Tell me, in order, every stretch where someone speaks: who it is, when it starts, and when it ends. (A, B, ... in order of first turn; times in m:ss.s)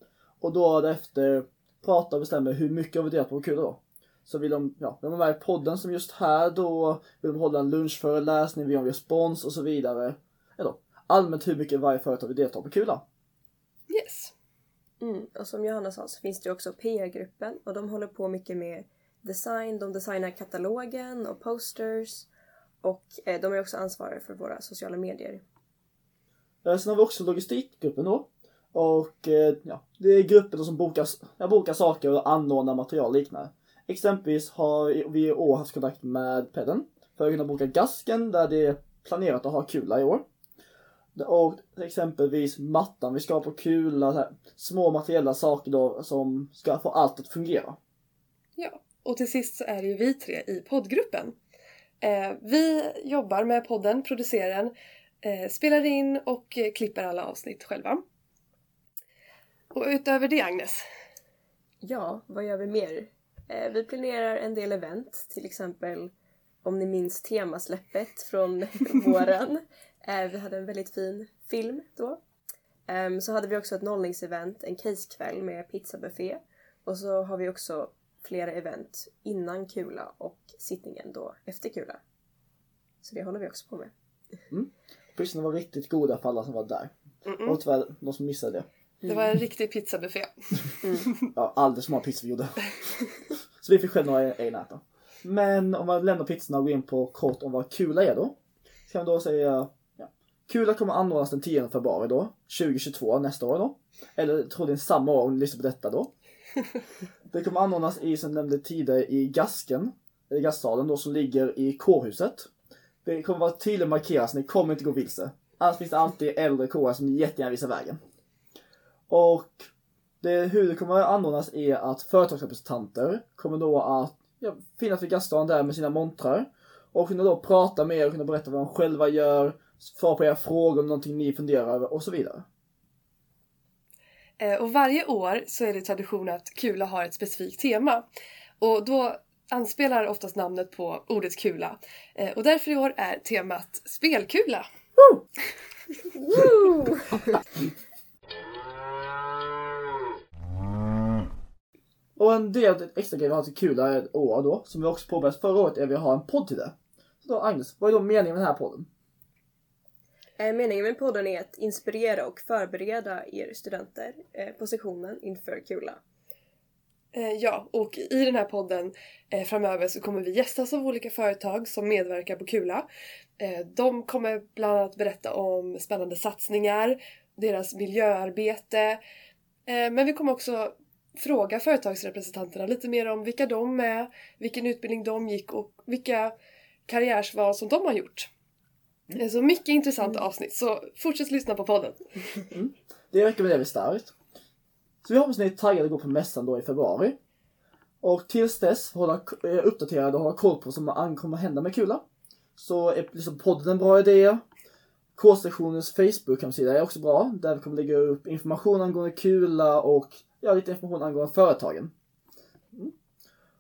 0:00.4-0:13.0 A
0:13.9-0:14.3 B
0:15.0-0:22.3 C
0:22.8-0:25.4 C
0:26.6-0:40.2 A
0:41.2-0:47.8 A
0:48.6-0:51.4 B
0:52.0-0:58.0 B
0:59.7-1:00.8 B
1:01.8-1:12.2 C
1:12.9-1:22.0 C
1:23.0-1:23.9 C
1:24.5-1:26.9 A
1:27.2-1:27.6 B
1:27.4-1:28.6 A
1:29.0-1:29.3 C
1:29.0-1:31.2 B
1:31.3-1:32.7 A
1:33.6-1:38.3 A
1:38.9-1:46.1 A
1:47.3-1:52.5 A
1:53.0-1:58.0 A
1:59.1-1:59.7 A
2:00.2-2:12.4 A
2:14.4-2:18.0 B
2:18.6-2:24.6 B
2:26.2-2:27.3 C
2:32.2-2:38.9 A
2:40.4-2:46.0 C
2:47.1-2:52.8 B
2:53.4-2:59.0 B
2:59.6-3:06.3 B
3:06.9-3:08.3 B
3:09.1-3:12.5 B
3:12.5-3:14.1 A
3:15.0-3:17.2 A
3:18.0-3:22.0 A
3:22.6-3:24.4 A
3:25.2-3:31.9 A